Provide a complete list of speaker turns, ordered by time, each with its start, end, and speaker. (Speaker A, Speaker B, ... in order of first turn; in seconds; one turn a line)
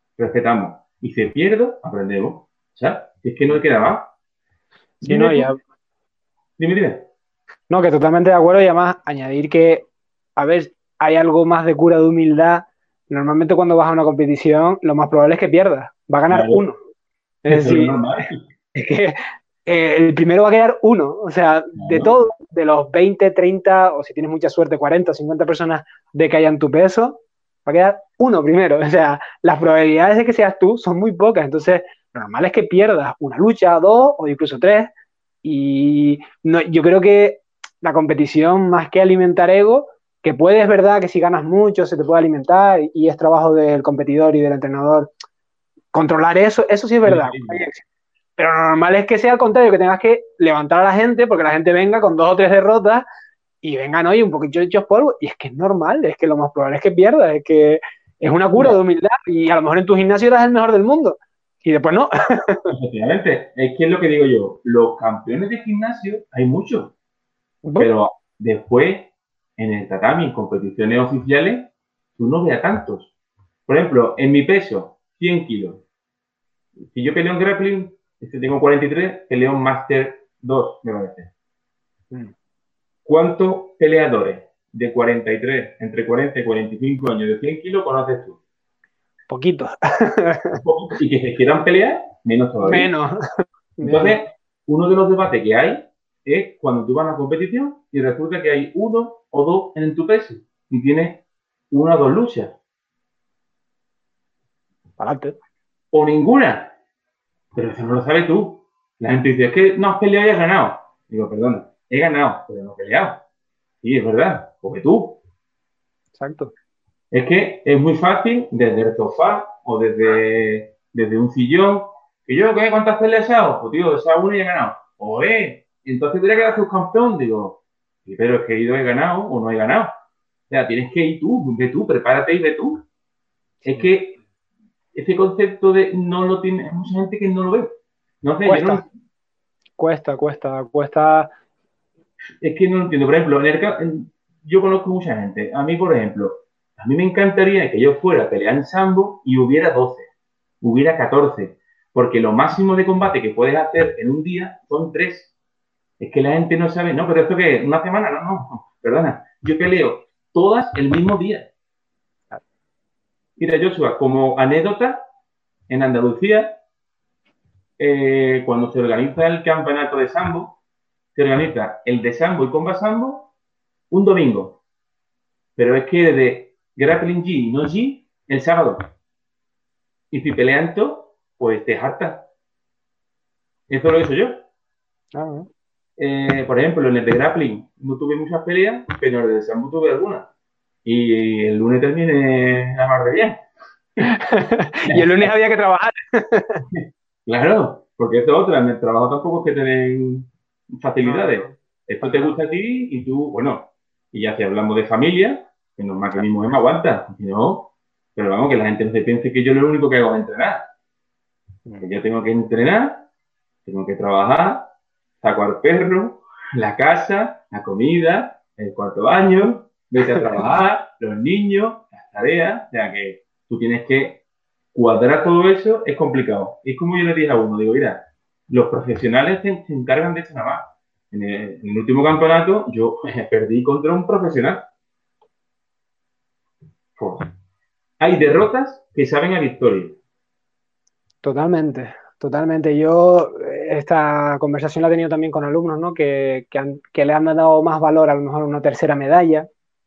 Speaker A: 0.2-4.1
Speaker B: 5.0-5.6
Speaker A: 5.0-5.5
Speaker A: 6.6-7.1
Speaker B: 7.7-16.8
Speaker A: 16.3-16.6
Speaker B: 17.4-18.0
Speaker A: 17.5-18.4
Speaker B: 18.7-34.9
Speaker A: 21.8-22.1
Speaker B: 35.4-45.1
Speaker B: 45.9-47.8
Speaker A: 47.0-47.7
Speaker B: 48.4-53.0
Speaker B: 53.6-62.7
Speaker A: 62.7-66.9
Speaker B: 67.7-67.9
Speaker A: 67.8-73.1
Speaker A: 73.7-75.8
Speaker A: 76.8-81.3
Speaker A: 83.0-88.4
Speaker B: 89.3-90.6
Speaker A: 90.5-92.9
Speaker B: 92.6-93.2
Speaker B: 93.8-94.2
Speaker A: 93.8-102.6
Speaker B: 105.0-105.4
Speaker A: 105.9-106.7
Speaker A: 107.5-113.2
Speaker A: 113.8-115.2
Speaker B: 116.2-116.5
Speaker A: 117.1-129.9
Speaker A: 130.5-132.8
Speaker A: 133.7-134.2
Speaker A: 134.9-138.8
Speaker B: 138.4-138.8
Speaker B: 139.8-141.3
Speaker A: 142.4-150.1
Speaker A: 150.6-155.3
Speaker A: 156.0-161.5
Speaker A: 163.4-165.1
Speaker A: 165.7-166.6
Speaker A: 167.8-170.6
Speaker A: 171.2-173.3
Speaker A: 173.9-174.6
Speaker A: 175.6-178.9
Speaker A: 180.1-182.3
Speaker A: 183.7-184.4
Speaker B: 185.1-185.5
Speaker A: 186.0-190.3
Speaker A: 190.8-193.4
Speaker B: 194.0-196.6
Speaker A: 194.9-195.3
Speaker A: 196.7-210.7
Speaker B: 201.1-202.3
Speaker A: 211.8-213.1
Speaker A: 213.7-224.2
Speaker A: 224.7-234.7
Speaker A: 237.0-237.3
Speaker A: 238.0-240.0
Speaker B: 241.2-249.5